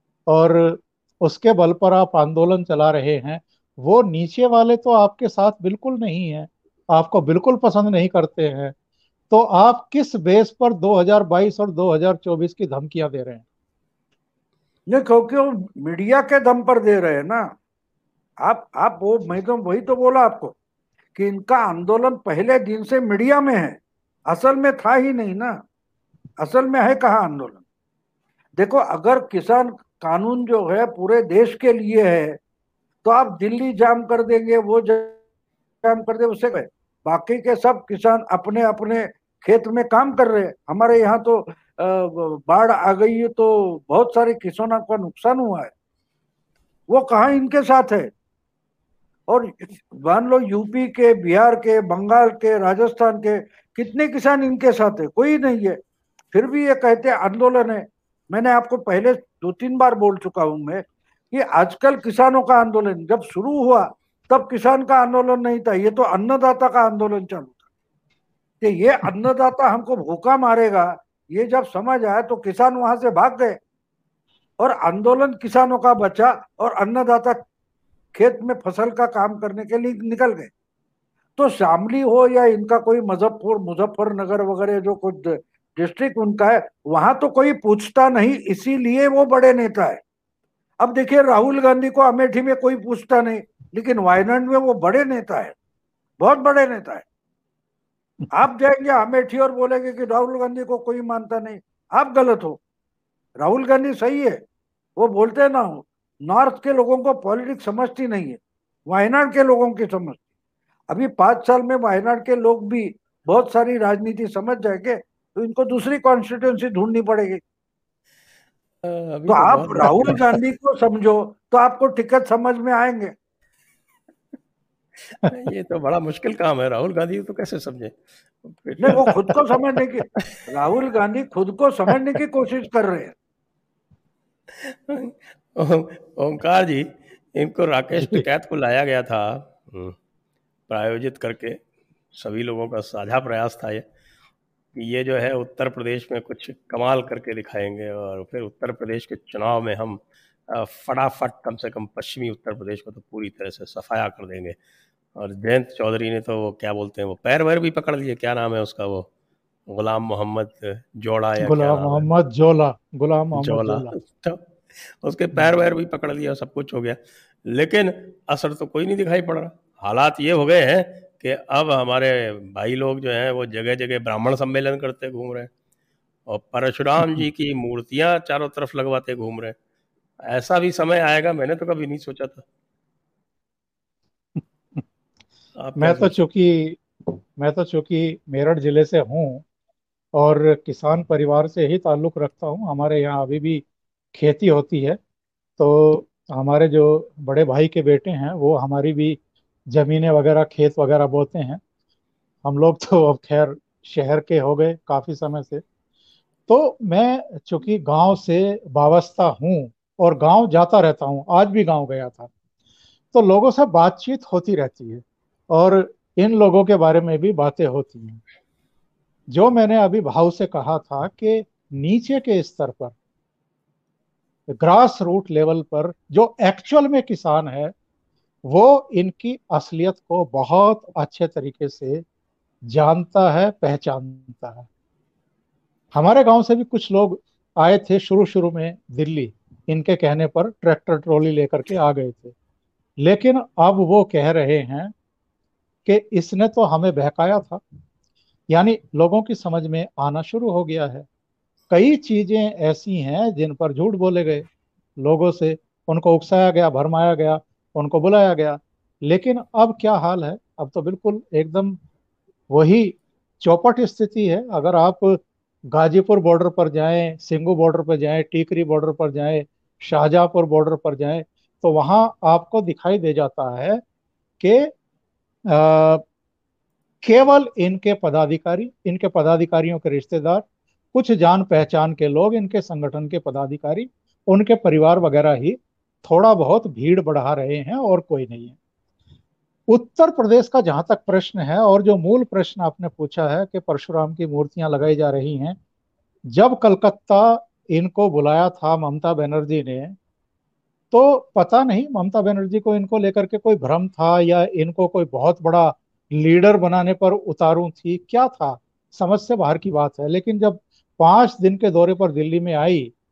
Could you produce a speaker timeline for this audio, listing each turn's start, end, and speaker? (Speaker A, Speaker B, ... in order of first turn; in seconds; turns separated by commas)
Speaker A: 0.3-8.7, Speaker A: 9.3-13.4, Speaker B: 14.9-17.5, Speaker B: 18.4-20.5, Speaker B: 21.1-25.5, Speaker B: 26.4-27.6, Speaker B: 28.6-32.4, Speaker B: 33.0-35.2, Speaker B: 35.8-45.7, Speaker B: 46.9-48.1, Speaker B: 49.3-55.8, Speaker B: 56.3-67.6, Speaker B: 68.6-73.6, Speaker B: 74.6-77.4, Speaker B: 78.1-80.5, Speaker B: 81.4-90.0, Speaker B: 90.8-95.5, Speaker B: 96.2-97.0, Speaker B: 98.3-102.6, Speaker B: 103.4-104.4, Speaker B: 105.0-110.2, Speaker B: 110.9-117.4, Speaker C: 118.8-120.4, Speaker B: 119.3-123.1, Speaker C: 125.1-129.3, Speaker B: 128.8-133.1, Speaker C: 134.5-139.9, Speaker A: 137.9-138.2, Speaker C: 140.7-141.6, Speaker C: 142.1-143.8, Speaker C: 144.8-154.6, Speaker C: 155.2-159.1, Speaker C: 159.7-162.1, Speaker A: 161.4-163.9, Speaker C: 163.4-175.5, Speaker C: 176.3-179.6, Speaker C: 180.3-182.4, Speaker A: 184.4-184.8, Speaker C: 185.6-186.2, Speaker A: 185.8-189.4, Speaker A: 190.2-195.0, Speaker A: 195.6-199.2, Speaker A: 199.7-201.6, Speaker A: 202.4-205.6, Speaker A: 206.5-212.3, Speaker A: 213.1-218.2, Speaker A: 219.3-222.9, Speaker A: 224.6-227.7, Speaker A: 228.4-232.0, Speaker A: 232.7-234.7, Speaker A: 235.9-242.3, Speaker A: 243.0-244.9, Speaker A: 245.8-247.6, Speaker A: 248.5-251.1, Speaker A: 251.7-254.5, Speaker A: 255.0-261.8, Speaker A: 262.5-273.8, Speaker A: 274.4-274.7, Speaker A: 275.5-276.0, Speaker A: 277.0-288.6, Speaker A: 289.7-295.6, Speaker A: 296.3-300.0, Speaker A: 300.9-312.9